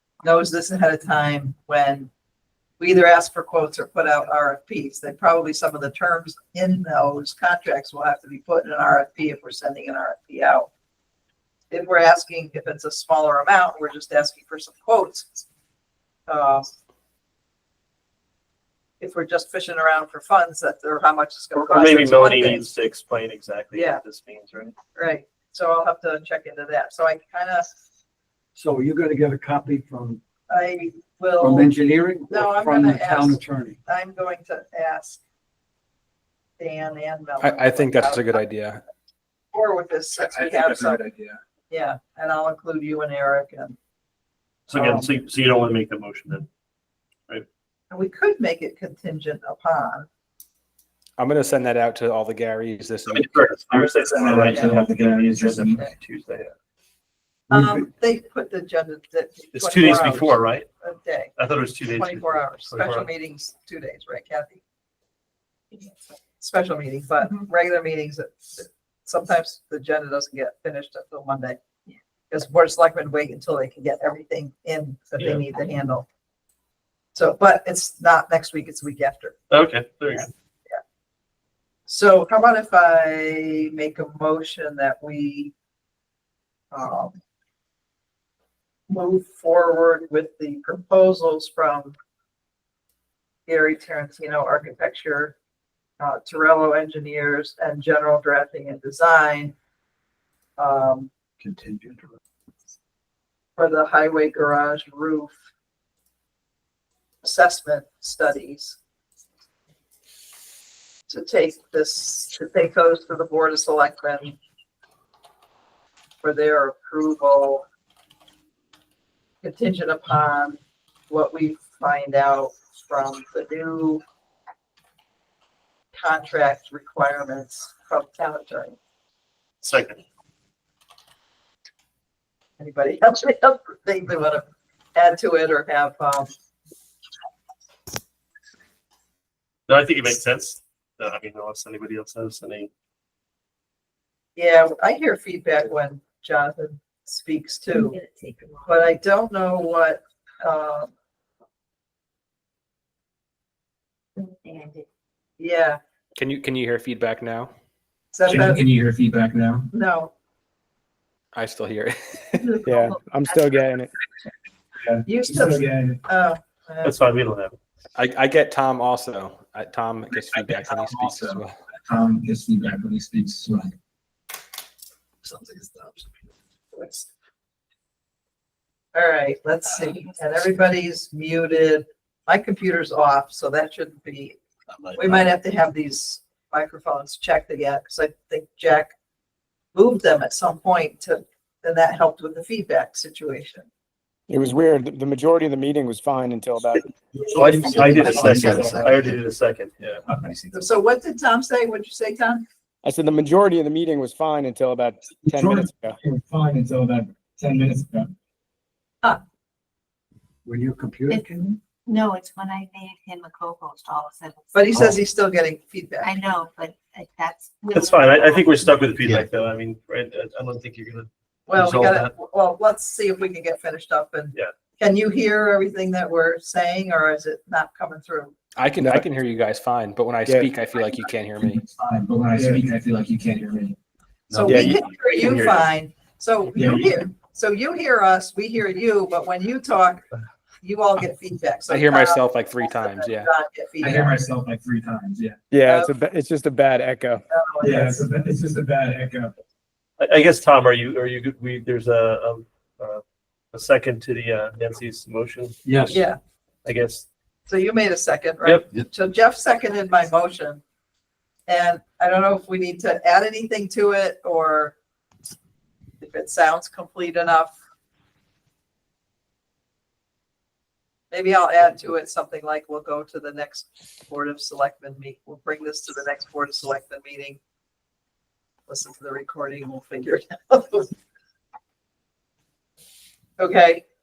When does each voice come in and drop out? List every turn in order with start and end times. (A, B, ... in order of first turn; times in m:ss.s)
0:00.2-0:02.1 A
0:02.8-0:10.7 A
0:11.7-0:15.3 A
0:16.3-0:16.7 A
0:19.0-0:22.7 A
0:21.6-0:24.8 B
0:23.7-0:24.0 A
0:24.9-0:27.7 A
0:28.6-0:30.2 C
0:30.5-0:31.7 A
0:31.4-0:33.8 C
0:32.3-0:35.2 A
0:36.6-0:38.4 A
0:37.4-0:38.8 D
0:39.5-0:41.0 A
0:40.2-0:41.4 E
0:41.7-0:43.8 A
0:44.7-0:46.5 B
0:44.8-0:45.0 A
0:47.9-0:50.1 A
0:51.2-0:53.5 D
0:53.1-0:56.5 B
0:53.7-0:55.8 E
0:54.5-0:54.8 A
0:57.5-1:04.6 A
0:59.5-1:00.7 B
1:01.4-1:03.1 B
1:06.4-1:11.6 A
1:12.3-1:16.1 A
1:17.2-1:19.4 A
1:19.5-1:20.3 B
1:21.9-1:25.5 A
1:26.7-1:27.2 A
1:28.9-1:31.9 A
1:33.5-1:35.4 A
1:36.0-1:39.6 A
1:40.6-1:41.1 A
1:41.5-1:42.0 C
1:43.6-1:45.4 A
1:47.2-1:48.8 A
1:51.1-1:54.4 A
1:56.2-1:57.6 A
1:59.4-2:00.6 A
2:01.1-2:04.0 A
2:05.9-2:08.8 A
2:09.6-2:10.0 B
2:12.6-2:16.3 A
2:19.7-2:22.7 B
2:24.4-2:28.0 A
2:27.7-2:28.9 F
2:28.7-2:30.9 A
2:34.2-2:34.9 F
2:35.4-2:35.8 A
2:36.2-2:37.5 D
2:38.1-2:38.6 A
2:38.3-2:39.7 E
2:39.7-2:40.1 A
2:41.3-2:42.6 D
2:42.4-2:43.8 F
2:42.6-2:43.9 G
2:44.8-2:46.0 E
2:45.1-2:47.0 A
2:46.8-2:47.6 B
2:48.0-2:51.5 D
2:50.3-2:53.7 E
2:55.3-2:55.9 A
2:58.9-3:04.4 A
3:04.9-3:08.9 A
3:09.8-3:13.7 A
3:14.3-3:16.9 G
3:17.3-3:19.0 E
3:17.3-3:20.0 B
3:17.9-3:19.1 C
3:20.2-3:20.5 E
3:20.5-3:22.4 A
3:22.8-3:26.0 G
3:25.3-3:28.1 E
3:30.4-3:31.3 C
3:31.1-3:35.0 F
3:34.5-3:36.2 A
3:36.0-3:38.7 F
3:37.7-3:42.1 B
3:41.5-3:48.3 A
3:48.6-3:51.6 D
3:48.8-3:49.0 G
3:50.3-3:50.5 G
3:51.4-3:53.8 E
3:54.3-4:00.1 A
3:54.3-3:55.6 B
3:54.4-3:54.8 G
3:56.6-3:56.9 E
4:00.6-4:04.1 A
4:01.7-4:03.3 D
4:03.8-4:05.4 E
4:05.5-4:07.2 G
4:05.7-4:05.9 A
4:07.3-4:08.0 A
4:07.6-4:09.3 E
4:10.0-4:13.0 B
4:13.5-4:16.0 B
4:15.7-4:16.0 E
4:15.9-4:16.2 A
4:16.6-4:17.1 B
4:17.5-4:20.6 A
4:18.4-4:18.7 B
4:21.5-4:24.8 A
4:26.0-4:27.6 A
4:31.1-4:37.4 A
4:38.7-4:40.9 A
4:43.4-4:43.8 A